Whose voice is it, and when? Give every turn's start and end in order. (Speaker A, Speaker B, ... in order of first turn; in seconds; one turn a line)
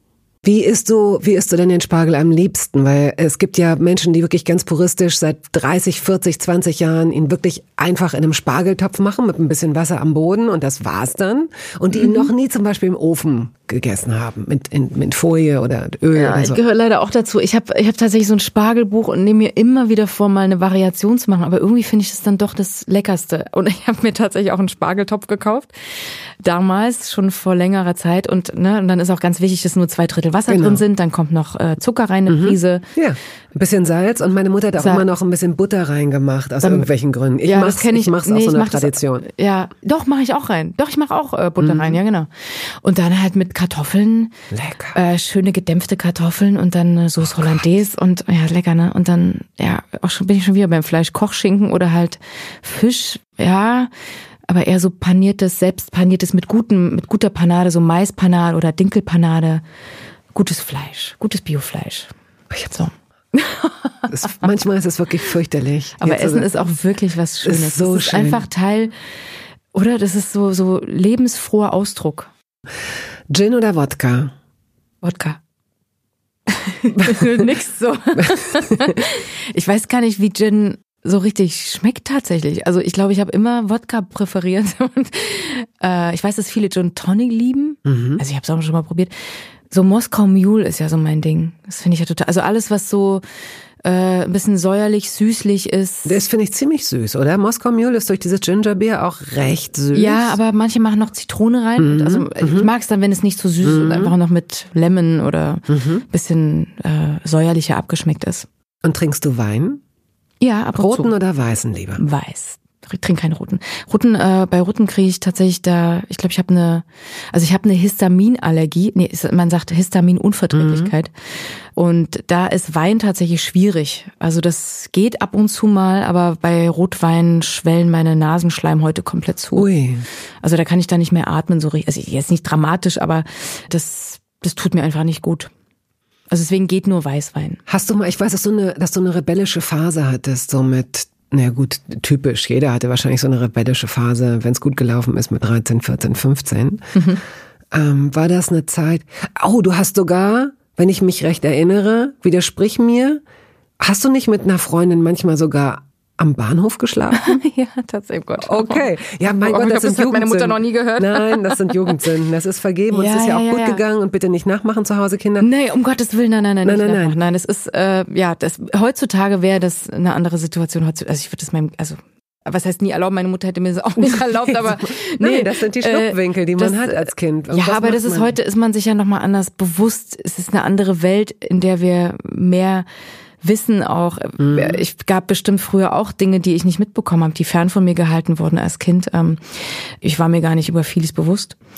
Speaker A: 0.4-16.6
Speaker B: 11.9-12.3
Speaker B: 16.1-25.7
Speaker B: 26.4-32.8
Speaker A: 30.5-30.8
Speaker A: 32.3-39.2
Speaker B: 34.8-35.0
Speaker B: 36.6-36.9
Speaker B: 37.4-44.3
Speaker A: 41.6-42.0
Speaker A: 44.5-45.0
Speaker B: 44.9-53.9
Speaker A: 47.2-47.7
Speaker B: 54.5-59.6
Speaker B: 60.4-62.1
Speaker B: 62.7-64.5
Speaker A: 64.1-66.5
Speaker B: 66.0-68.9
Speaker A: 67.5-68.5
Speaker B: 69.7-72.3
Speaker A: 73.3-74.3
Speaker B: 75.0-75.4
Speaker B: 76.5-89.1
Speaker A: 77.0-77.5
Speaker A: 78.2-79.0
Speaker A: 87.9-88.2
Speaker B: 89.7-93.2
Speaker B: 93.8-96.2
Speaker A: 96.1-100.4
Speaker B: 99.9-108.5
Speaker A: 101.8-102.7
Speaker A: 103.6-104.2
Speaker A: 105.7-106.0
Speaker A: 108.8-109.8
Speaker B: 110.4-111.1
Speaker A: 110.8-112.0
Speaker B: 112.0-121.1
Speaker A: 120.5-120.9
Speaker B: 121.8-129.7
Speaker A: 129.6-130.1
Speaker B: 130.4-135.5
Speaker B: 136.3-137.6
Speaker A: 137.7-146.8
Speaker B: 146.9-147.2
Speaker A: 147.7-153.2
Speaker A: 153.8-157.4
Speaker B: 157.2-162.0
Speaker A: 158.4-165.5
Speaker B: 162.9-163.8
Speaker B: 165.4-182.8
Speaker A: 166.7-167.2
Speaker A: 174.1-178.3
Speaker B: 183.4-191.6
Speaker A: 184.4-184.8